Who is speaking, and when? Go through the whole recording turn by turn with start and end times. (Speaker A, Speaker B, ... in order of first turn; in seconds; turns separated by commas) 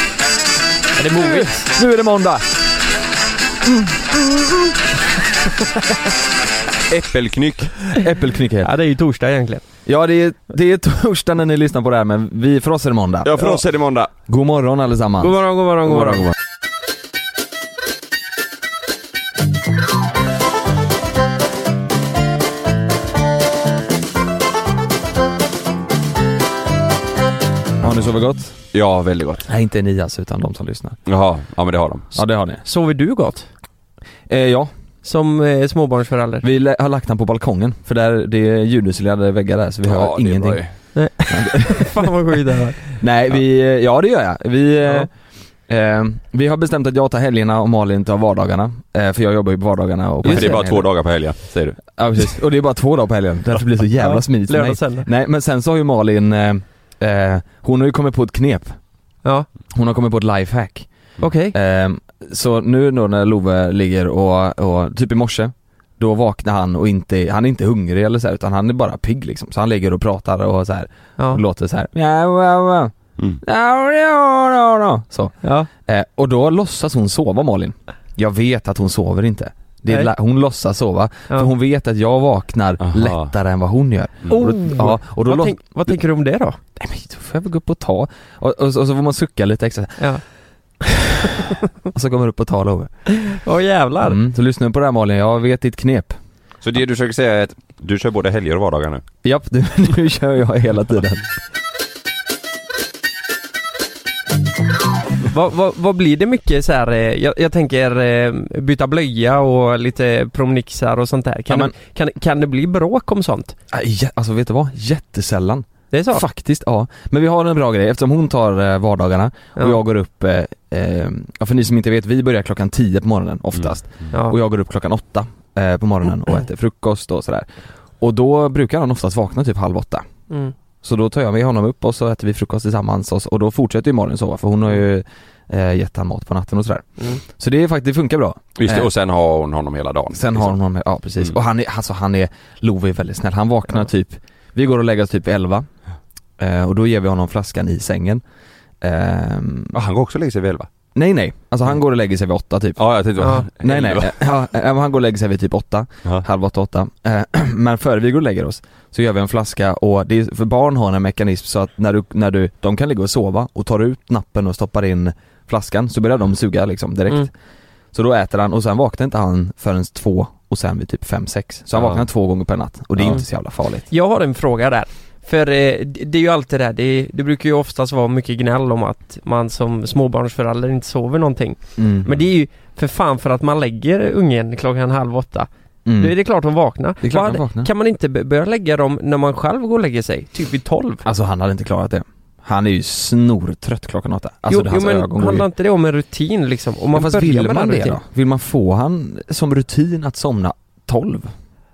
Speaker A: 1.0-2.5, Speaker B: 1.0-1.7, Speaker A: 3.6-4.8, Speaker C: 6.9-7.8, Speaker A: 7.9-8.7, Speaker B: 8.6-9.7, Speaker A: 9.8-13.6, Speaker C: 13.2-14.1, Speaker A: 14.3-16.3, Speaker B: 15.2-16.3, Speaker C: 27.8-28.1, Speaker A: 27.8-28.5, Speaker C: 28.7-29.5, Speaker A: 29.4-31.0, Speaker C: 31.1-32.0, Speaker A: 32.1-32.6, Speaker B: 32.1-33.5, Speaker A: 34.3-34.7, Speaker B: 35.0-36.5, Speaker A: 36.4-40.6, Speaker C: 39.8-40.7, Speaker B: 40.9-42.8, Speaker A: 41.3-42.0, Speaker A: 42.9-45.1, Speaker B: 44.8-45.1, Speaker A: 45.7-50.9, Speaker B: 50.2-50.6, Speaker C: 50.3-51.8, Speaker A: 51.9-58.8, Speaker B: 54.0-55.1, Speaker A: 59.7-60.9, Speaker B: 61.2-61.5, Speaker A: 61.5-85.6, Speaker C: 82.8-83.3, Speaker B: 84.3-86.6, Speaker A: 86.8-90.1, Speaker A: 90.9-91.2, Speaker A: 91.9-92.9, Speaker B: 93.1-94.2, Speaker A: 94.0-96.2, Speaker C: 96.6-99.0, Speaker A: 99.2-101.2, Speaker B: 105.2-113.5, Speaker A: 113.7-127.5, Speaker B: 115.9-116.2, Speaker A: 128.0-130.1, Speaker A: 130.8-138.9, Speaker C: 138.6-140.5, Speaker A: 140.1-145.7, Speaker A: 146.4-148.2, Speaker A: 148.8-149.7, Speaker C: 149.7-150.7, Speaker A: 150.9-167.3, Speaker C: 152.8-154.2, Speaker B: 153.2-153.4, Speaker A: 167.9-173.8, Speaker C: 171.7-172.0, Speaker B: 173.9-191.0, Speaker A: 181.8-182.1, Speaker A: 185.8-186.1, Speaker A: 187.0-187.7, Speaker A: 191.0-195.5, Speaker B: 194.5-198.0, Speaker A: 196.9-201.3